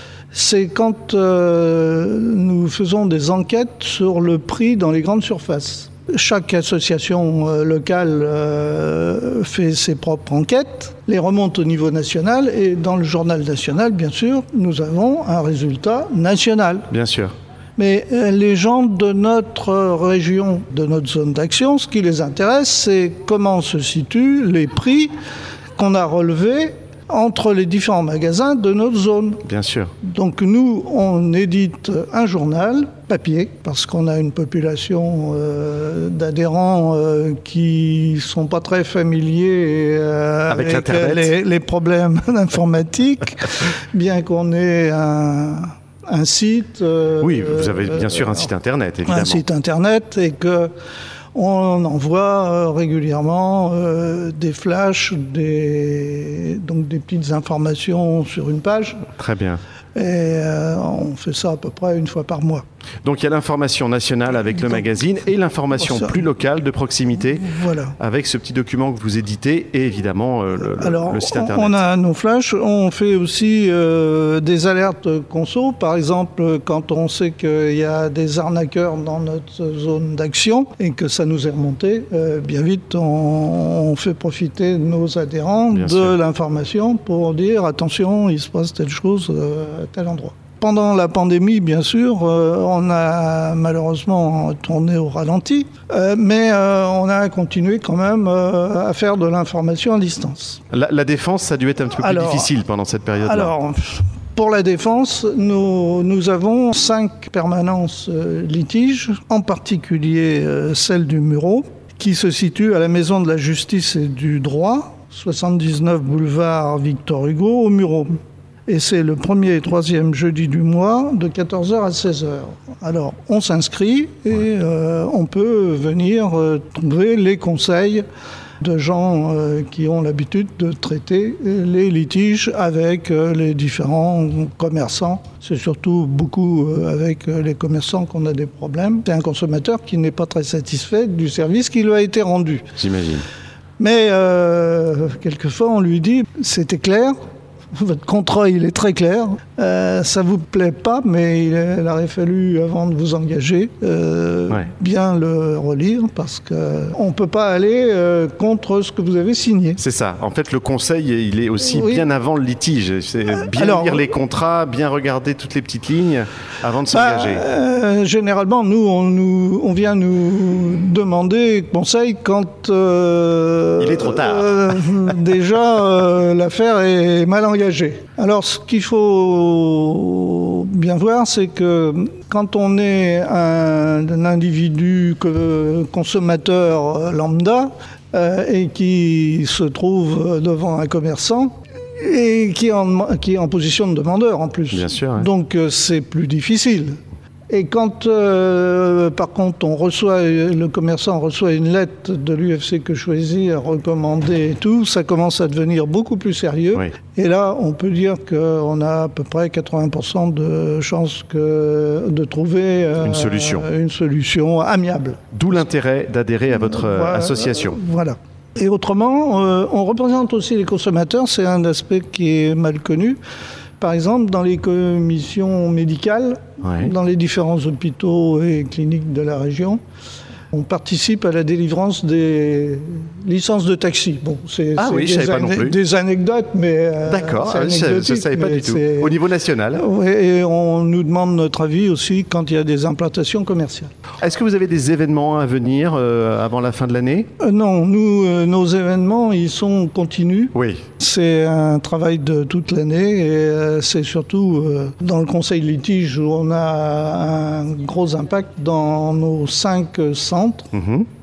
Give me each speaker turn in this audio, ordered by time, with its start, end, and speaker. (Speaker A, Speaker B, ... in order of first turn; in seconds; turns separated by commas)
Speaker A: 0.3-16.9, Speaker B: 16.9-17.3, Speaker A: 17.8-25.1, Speaker A: 25.8-29.4, Speaker B: 29.4-29.9, Speaker A: 30.0-48.5, Speaker B: 40.5-41.3, Speaker B: 47.2-49.4, Speaker A: 49.0-50.7, Speaker A: 51.3-59.0, Speaker B: 59.2-59.6, Speaker A: 59.9-62.6, Speaker B: 63.0-71.8, Speaker A: 65.8-66.2, Speaker A: 67.4-68.0, Speaker A: 70.7-100.6, Speaker B: 85.7-86.1, Speaker B: 100.7-103.5, Speaker A: 102.0-102.5, Speaker A: 103.2-118.1, Speaker A: 118.7-128.0, Speaker A: 128.6-142.7, Speaker B: 142.8-143.3, Speaker A: 143.8-147.2, Speaker A: 147.7-159.8, Speaker B: 159.8-167.4, Speaker A: 161.6-162.1, Speaker A: 163.3-164.0, Speaker A: 166.9-215.4, Speaker B: 173.8-175.1, Speaker B: 194.7-195.3, Speaker B: 213.0-213.7, Speaker B: 215.3-217.8, Speaker A: 216.5-223.2, Speaker A: 223.8-229.8, Speaker B: 226.6-226.9, Speaker A: 230.5-239.2, Speaker B: 234.8-235.8, Speaker B: 237.1-239.8, Speaker A: 239.7-243.9, Speaker B: 244.2-247.3, Speaker A: 247.4-260.7, Speaker B: 250.5-250.8, Speaker B: 260.7-261.1